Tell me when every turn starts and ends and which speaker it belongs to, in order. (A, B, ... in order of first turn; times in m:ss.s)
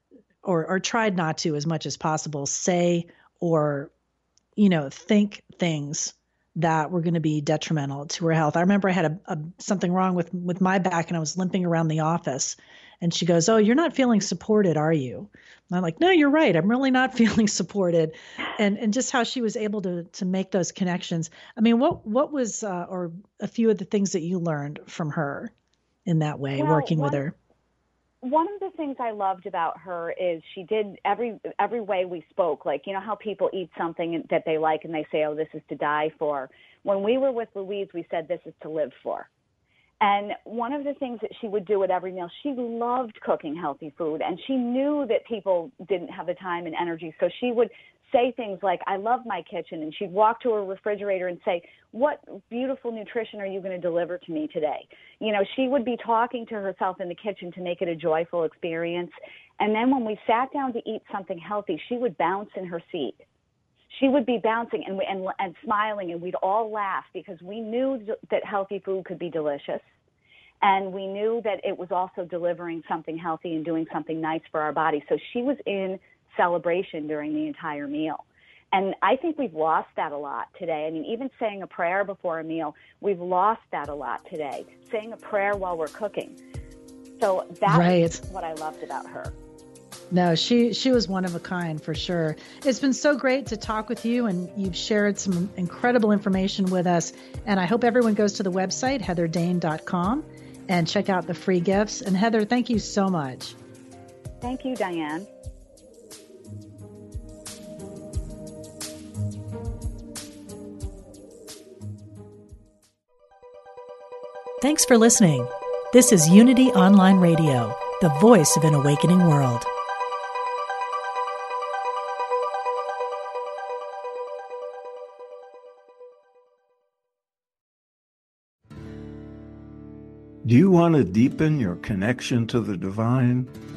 0:00.4-0:03.9 A
0:04.6-0:25.5 A
0:26.1-0:27.3 A
0:26.6-0:27.2 B
0:28.2-0:39.3 B
0:40.0-1:03.2 B
1:03.9-1:09.9 B
1:10.6-1:26.4 B
1:27.2-1:29.3 B
1:27.7-1:28.2 A
1:30.1-1:43.6 A
1:44.4-1:45.3 B
1:54.6-1:59.7 A
2:10.4-2:13.5 C